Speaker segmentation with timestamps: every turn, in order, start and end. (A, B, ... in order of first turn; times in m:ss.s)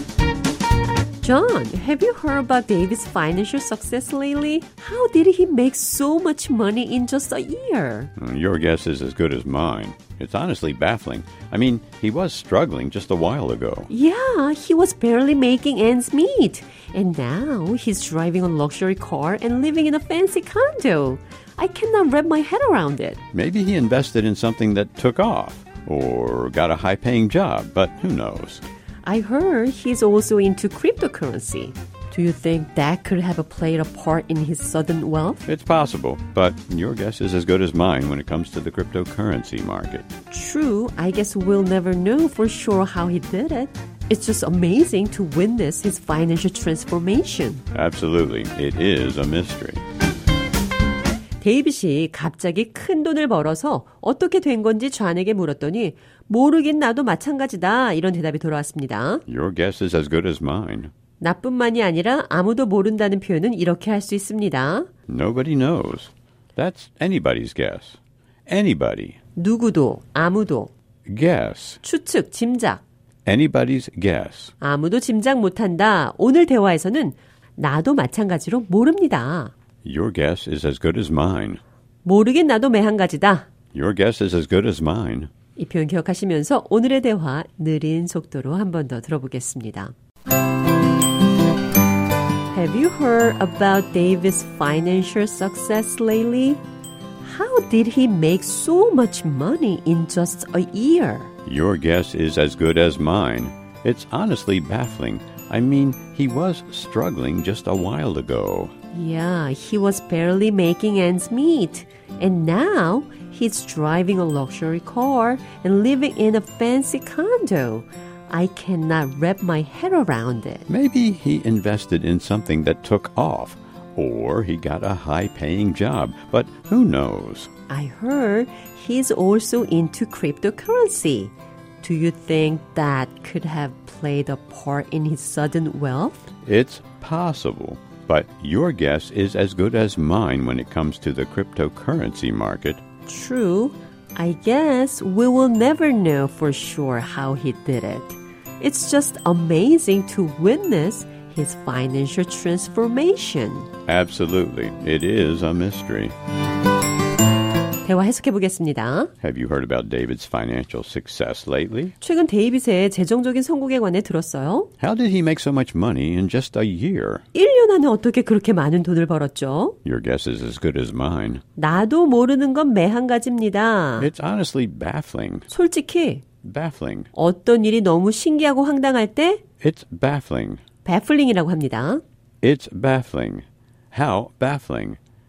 0:01.2-0:08.1 A
0:08.2-0:13.9 B
0:13.9-0:23.2 A
0:23.3-0:28.6 B
0:29.0-0:35.4 A
0:35.5-0:40.1 B
0:40.3-0:47.6 A
0:47.7-0:49.8 B
0:51.4-0:59.2 A
0:59.3-1:00.9 B
1:01.2-1:04.9 A
1:05.1-1:09.2 B
1:09.4-1:10.7 A
1:11.1-1:11.8 B
1:11.8-1:12.8 A
1:13.3-1:14.5 B
1:14.6-1:19.5 A
1:19.8-1:21.6 B
1:22.0-1:23.5 A
1:23.7-1:25.3 B
1:25.6-1:29.9 A
1:32.5-1:36.6 A
1:37.2-1:41.3 A
1:41.5-1:48.7 B
1:48.9-2:00.7 A
2:00.7-2:07.5 B
2:07.7-2:16.3 A
2:16.4-2:22.8 B
2:23.1-2:33.7 A
2:33.9-2:36.2 B
2:37.8-2:39.1 A
2:39.2-2:42.0 B
2:42.0-2:44.7 A
2:44.8-2:47.2 B
2:47.3-2:49.8 A
2:49.8-2:51.4 B
2:51.6-2:54.1 A
2:54.0-2:55.5 B
2:55.5-2:56.2 A
2:56.4-2:57.1 B
2:57.2-2:59.4 A
2:59.6-3:00.6 B
3:00.8-3:02.0 A
3:02.4-3:05.0 B